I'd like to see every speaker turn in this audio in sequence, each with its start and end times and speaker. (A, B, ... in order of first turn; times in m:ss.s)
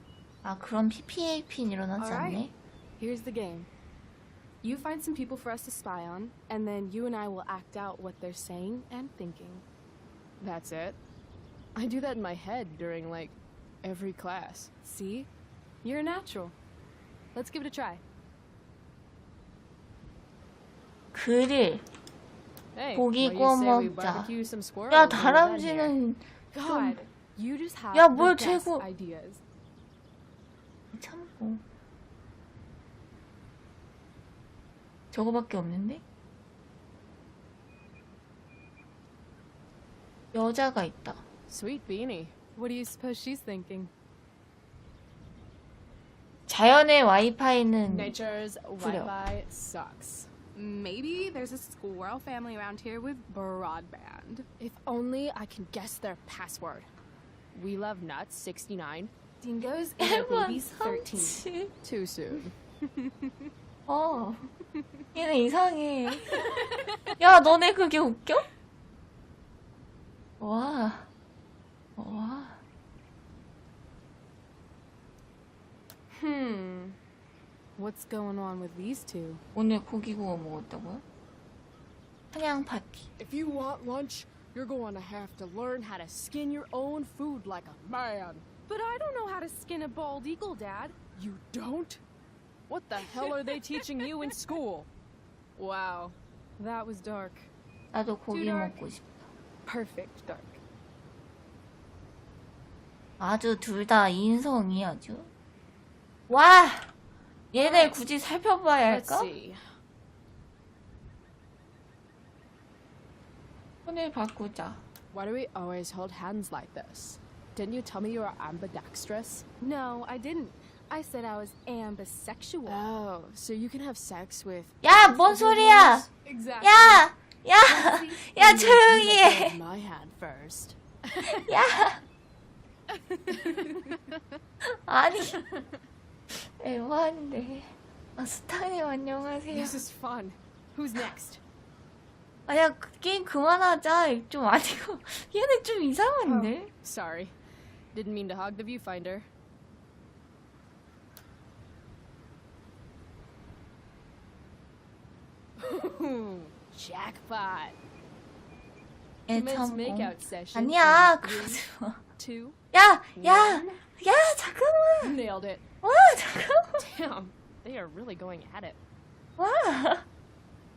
0:00.4-0:02.5 A
0:02.0-0:02.5 B
0:03.0-0:03.7 B
0:04.6-0:09.6 B
0:10.4-0:11.0 C
0:11.8-0:14.7 C
0:14.8-0:15.3 B
0:15.8-0:16.6 B
0:17.3-0:18.0 B
0:21.1-0:21.8 A
0:22.8-0:26.0 C
0:22.9-0:24.3 A
0:24.9-0:27.0 A
0:26.5-0:29.4 B
0:27.9-0:28.8 A
0:30.9-0:31.6 A
0:35.1-0:36.0 A
0:40.3-0:41.2 A
0:41.5-0:42.3 C
0:42.6-0:43.9 B
0:46.5-0:48.2 A
0:47.8-0:50.3 C
0:48.8-0:49.1 A
0:50.6-0:54.5 B
0:54.6-0:56.9 C
0:57.5-0:59.1 C
0:59.4-1:01.4 B
1:00.0-1:01.7 A
1:01.8-1:02.5 C
1:02.8-1:03.5 B
1:03.9-1:04.5 A
1:05.1-1:06.5 A
1:06.3-1:07.0 B
1:07.2-1:08.5 A
1:10.4-1:11.1 A
1:12.0-1:12.6 A
1:16.2-1:17.0 B
1:17.8-1:19.4 B
1:19.6-1:21.0 A
1:22.3-1:23.1 A
1:23.2-1:28.5 C
1:28.7-1:31.0 B
1:31.2-1:32.0 C
1:32.7-1:34.9 C
1:33.0-1:34.1 B
1:35.6-1:36.2 C
1:36.6-1:37.5 B
1:37.9-1:39.3 A
1:38.3-1:38.8 B
1:39.7-1:40.6 B
1:43.2-1:45.3 A
1:46.3-1:46.9 A
1:47.5-1:49.3 A
1:47.6-1:47.9 C
1:48.9-1:49.6 C
1:53.8-1:54.8 A
1:55.1-1:59.5 C
1:59.6-2:02.8 B
2:02.7-2:06.1 C
2:04.8-2:06.0 A
2:06.2-2:07.0 B
2:06.6-2:09.6 A
2:07.7-2:11.5 C
2:11.2-2:12.0 A
2:12.9-2:14.0 B
2:13.5-2:14.0 C
2:14.6-2:15.4 A
2:15.3-2:15.6 C
2:16.3-2:19.8 A
2:19.5-2:21.4 C
2:22.5-2:26.7 A
2:26.2-2:27.3 C
2:27.9-2:29.3 C
2:35.6-2:37.8 C
2:39.3-2:42.0 A
2:39.3-2:41.6 C
2:42.2-2:42.6 B
2:42.7-2:45.2 A
2:43.2-2:43.8 C
2:45.0-2:45.6 C
2:45.8-2:46.8 A
2:46.8-2:48.8 C
2:49.4-2:50.0 A